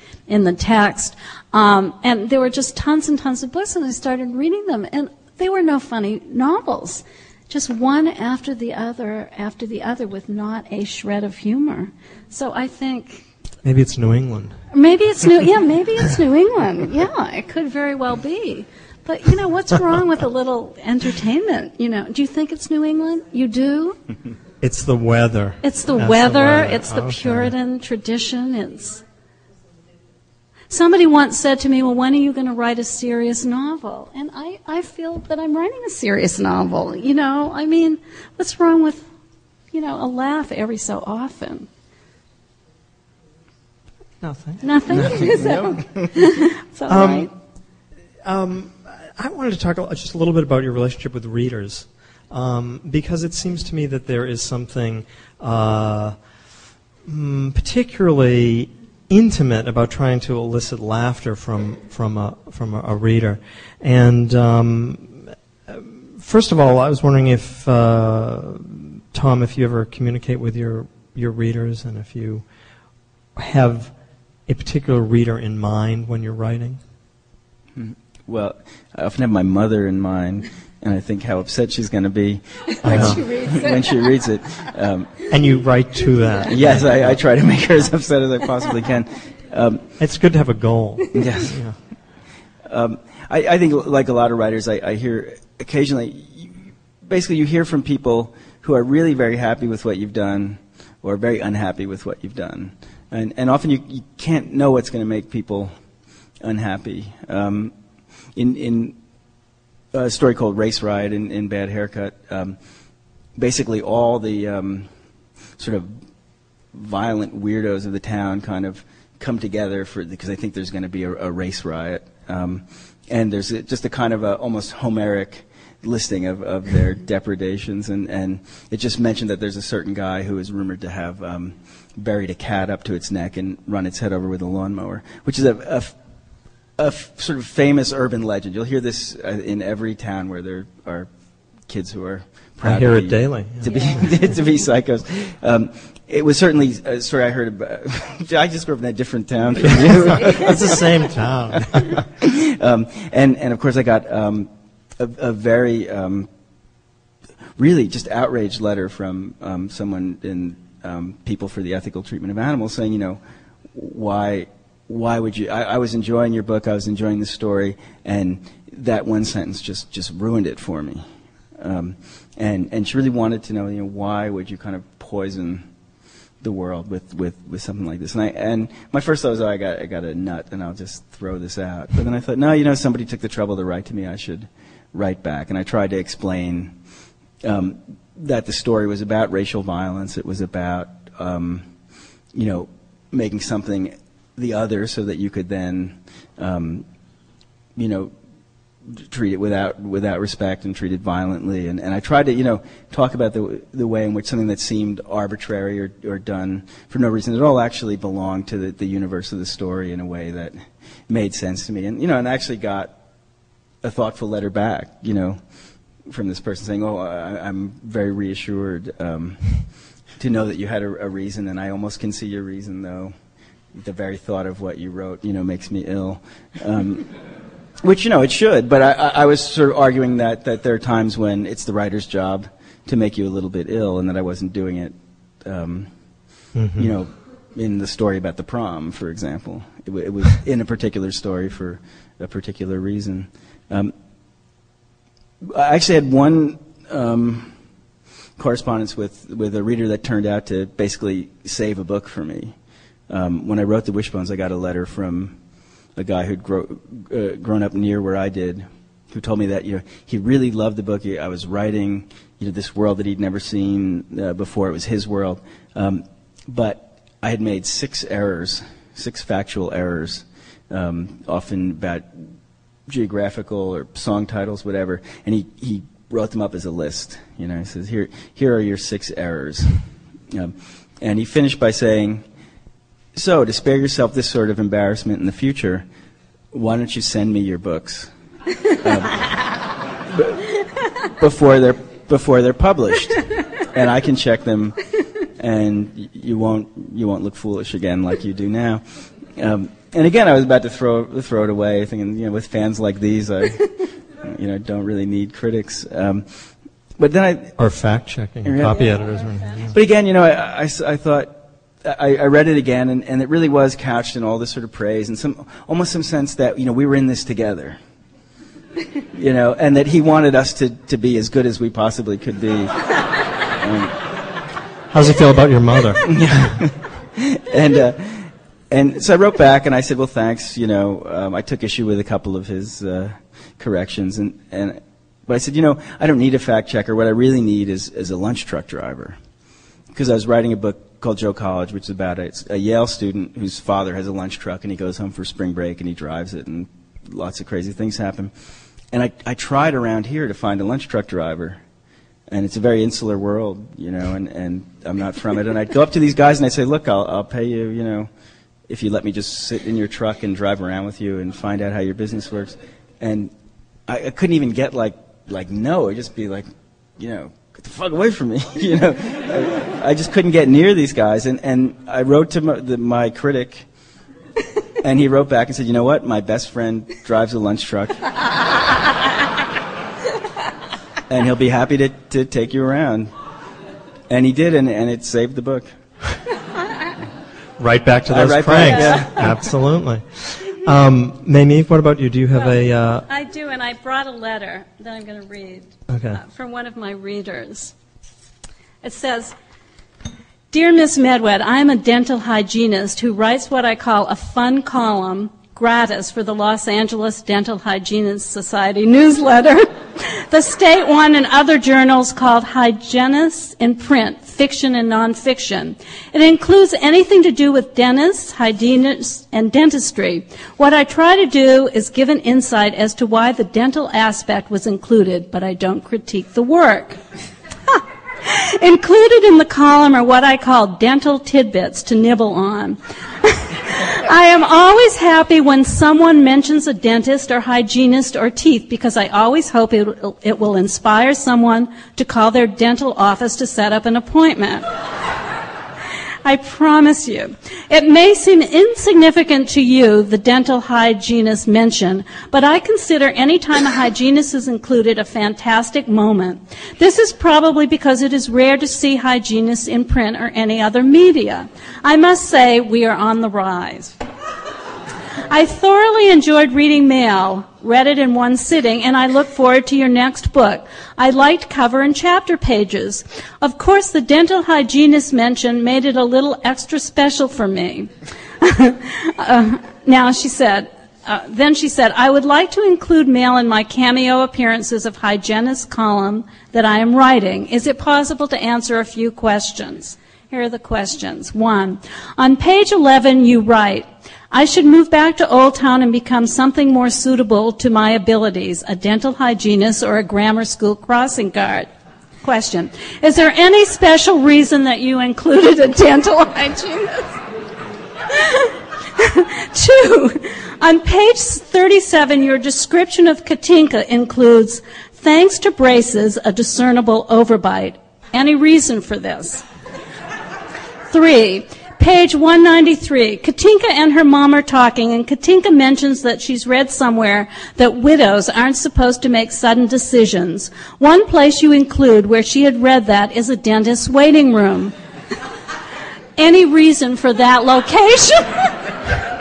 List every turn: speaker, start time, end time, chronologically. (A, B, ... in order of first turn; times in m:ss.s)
0:00.3-0:13.3 A
0:13.6-0:14.6 B
0:14.7-0:24.0 A
0:24.6-0:27.5 B
0:25.6-0:29.0 A
0:30.7-0:39.1 A
0:39.7-0:41.7 A
0:44.2-0:45.3 B
0:44.6-0:47.3 A
0:44.9-0:46.2 C
0:46.9-0:47.3 B
0:48.2-0:56.2 B
0:57.0-1:12.4 B
1:13.4-1:13.9 B
1:14.5-1:16.8 B
1:17.8-1:25.3 C
1:22.8-1:23.3 B
1:22.9-1:24.1 A
1:25.3-1:27.2 B
1:26.5-1:29.9 C
1:30.0-1:31.8 B
1:31.1-1:31.6 C
1:32.6-1:45.7 C
1:46.4-1:47.7 C
1:48.4-1:49.0 C
1:49.9-1:52.6 C
1:53.4-1:54.9 C
1:55.6-1:56.0 C
1:56.7-2:16.0 C
2:16.8-2:21.1 C
2:21.6-2:30.9 C
2:22.6-2:24.2 B
2:29.6-2:32.0 B
2:31.6-2:36.3 C
2:37.6-2:43.2 C
2:43.7-2:51.0 C
2:51.6-2:55.7 C
2:56.4-3:06.8 C
3:07.4-3:11.7 C
3:12.3-3:16.9 C
3:17.8-3:18.1 C
3:18.9-3:33.0 C
3:33.8-3:35.4 C
3:36.1-3:43.2 C
3:43.7-3:47.1 C
3:47.8-3:55.9 C
3:56.6-3:56.9 B
3:56.8-4:03.9 C
4:05.4-4:07.6 C
4:08.4-4:12.6 C
4:13.1-4:15.4 C
4:16.0-4:32.3 C
4:32.9-4:39.8 C
4:40.3-4:42.2 C
4:43.2-4:45.9 C
4:46.5-4:48.1 C
4:48.7-5:07.6 C
5:07.6-5:09.8 B
5:08.5-5:08.9 C
5:09.7-5:17.8 C
5:19.1-5:22.9 C
5:23.5-5:24.0 C
5:24.9-5:26.6 B
5:26.1-5:39.2 C
5:39.9-5:48.3 C
5:48.9-5:51.6 C
5:52.3-5:58.1 C
5:58.7-6:03.3 C
6:03.9-6:13.7 C
6:14.8-6:18.1 C
6:21.1-6:23.1 C
6:24.1-6:25.7 C
6:27.6-6:33.0 B
6:28.1-6:29.4 C
6:33.1-6:37.7 A
6:35.9-6:36.2 B
6:38.8-6:39.4 A
6:40.5-7:07.0 A
7:07.7-7:24.6 A
7:26.2-7:44.0 A
7:45.2-8:21.7 A
8:22.2-8:27.2 A
8:28.1-8:39.4 A
8:40.9-8:54.7 A
8:56.2-8:58.7 A